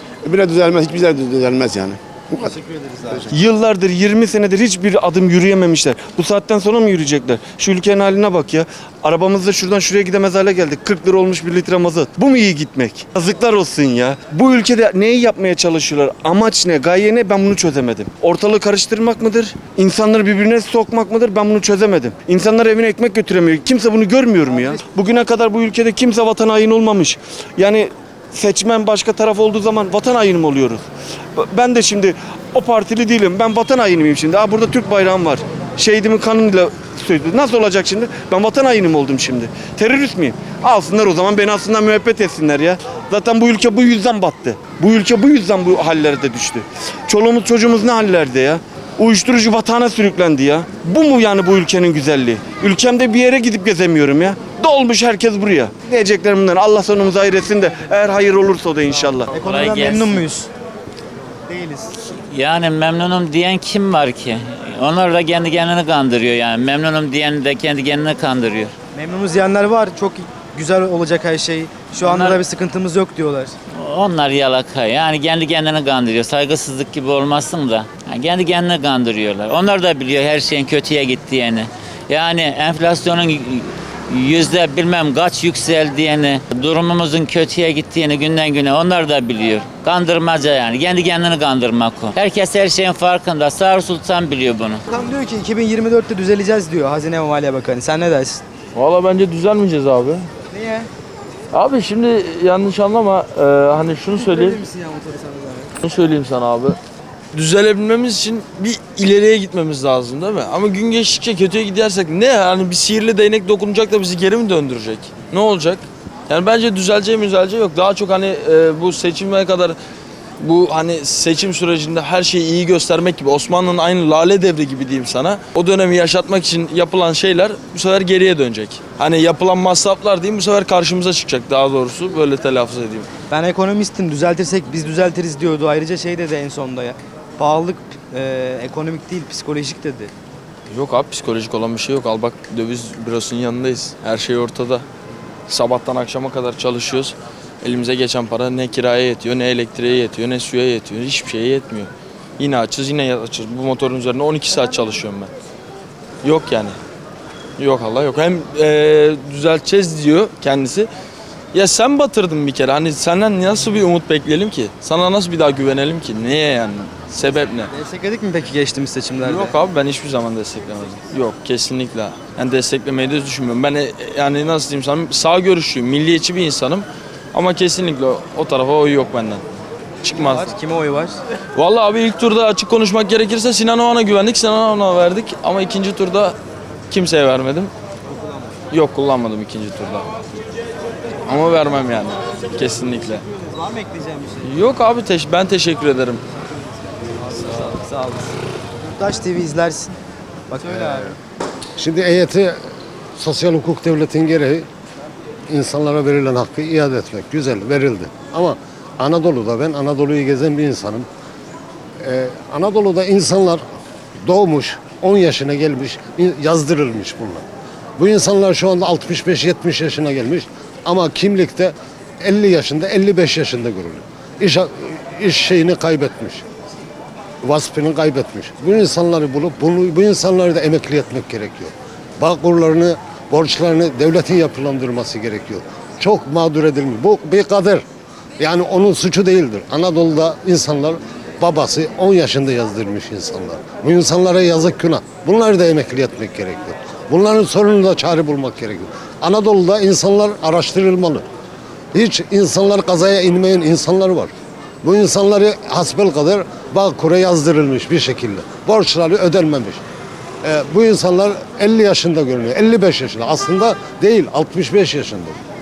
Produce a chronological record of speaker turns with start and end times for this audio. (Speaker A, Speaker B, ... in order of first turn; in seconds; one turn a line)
Speaker A: 0.2-2.5
Speaker B: 2.4-3.2
Speaker C: 3.3-30.8
Speaker B: 24.5-24.8
Speaker C: 31.4-59.4
Speaker B: 59.0-60.5
Speaker D: 59.4-60.2
Speaker B: 61.5-61.9
Speaker D: 62.3-68.7
Speaker B: 68.9-73.5
Speaker D: 72.0-72.3
Speaker D: 73.8-94.8
Speaker B: 94.9-98.4
Speaker E: 98.7-100.3
Speaker B: 100.5-100.9
Speaker E: 101.5-104.6
Speaker B: 104.1-105.7
Speaker E: 105.8-106.8
Speaker E: 107.3-119.8
Speaker E: 120.4-133.1
Speaker B: 133.3-140.1
Speaker E: 140.7-144.8
Speaker E: 145.5-155.3
Speaker E: 156.2-156.8
Speaker E: 157.6-160.9
Speaker E: 161.5-167.7
Speaker B: 167.7-169.6
Speaker E: 169.2-179.4
Speaker E: 180.0-180.5
Speaker B: 180.1-181.2
Speaker E: 181.6-186.4
Speaker E: 186.9-187.7
Speaker B: 188.1-188.6
Speaker E: 188.7-190.1
Speaker E: 191.3-193.2
Speaker B: 193.3-194.6
Speaker E: 194.4-196.2
Speaker B: 196.4-199.9
Speaker E: 197.3-197.7
Speaker B: 200.5-201.2
Speaker F: 201.8-202.6
Speaker F: 203.2-204.7
Speaker F: 205.5-211.1
Speaker F: 212.0-213.6
Speaker F: 214.2-217.4
Speaker F: 218.0-226.4
Speaker F: 227.4-237.8
Speaker F: 238.4-251.2
Speaker F: 251.9-254.3
Speaker F: 254.8-259.8
Speaker F: 260.4-265.4